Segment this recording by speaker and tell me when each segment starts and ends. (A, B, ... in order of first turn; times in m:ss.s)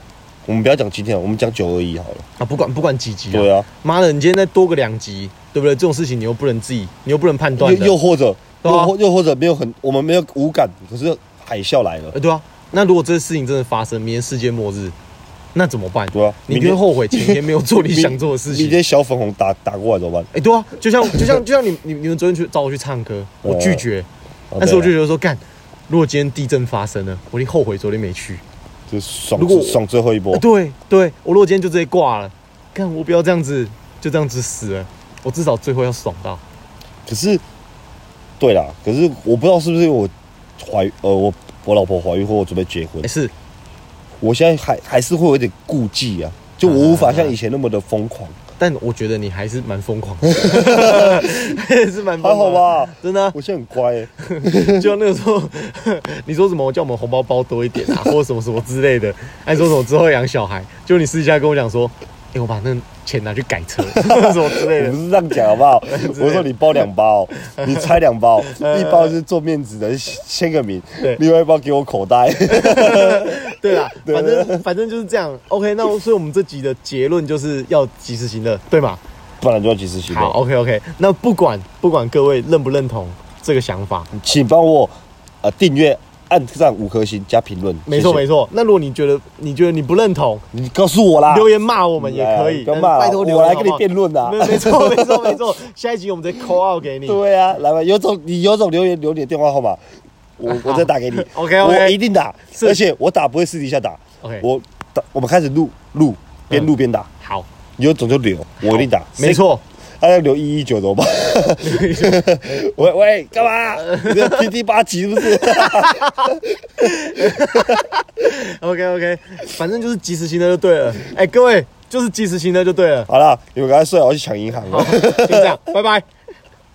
0:00.4-0:02.3 A
0:02.4-0:08.0 B
0:03.3-0:03.7 A
0:07.6-0:12.2 A
0:08.6-0:08.9 B
0:12.1-0:15.0 B
0:15.5-0:18.8 B
0:16.1-0:20.3 A
0:20.3-0:24.1 B
0:21.1-0:21.4 A
0:23.4-0:23.8 A
0:24.5-0:24.9 A
0:24.6-0:28.4 B
0:28.9-0:30.5 A
0:29.4-0:29.8 B
0:30.3-0:36.4 B
0:37.1-0:37.4 A
0:38.4-0:43.1 A
0:43.0-0:43.3 B
0:44.2-0:48.4 A
0:46.6-0:47.4 B
0:48.6-0:53.4 B
0:50.3-0:51.6 A
0:52.2-0:54.9 A
0:54.2-1:05.0 B
1:03.9-1:14.6 A
1:05.9-1:06.5 B
1:07.4-1:09.2 B
1:12.5-1:19.0 B
1:19.4-1:20.4 A
1:20.1-1:24.1 B
1:24.1-1:28.2 A
1:27.9-1:30.4 B
1:30.5-1:35.4 A
1:31.3-1:37.2 B
1:37.0-1:39.8 A
1:40.4-1:47.1 A
1:40.5-1:42.0 B
1:42.5-1:42.8 B
1:44.2-1:44.5 B
1:46.5-1:47.5 B
1:47.8-1:49.4 A
1:48.6-1:49.6 B
1:50.0-1:57.8 A
1:51.6-1:52.6 B
1:53.8-1:54.5 B
1:55.4-2:03.1 B
2:03.1-2:05.6 A
2:04.7-2:06.1 B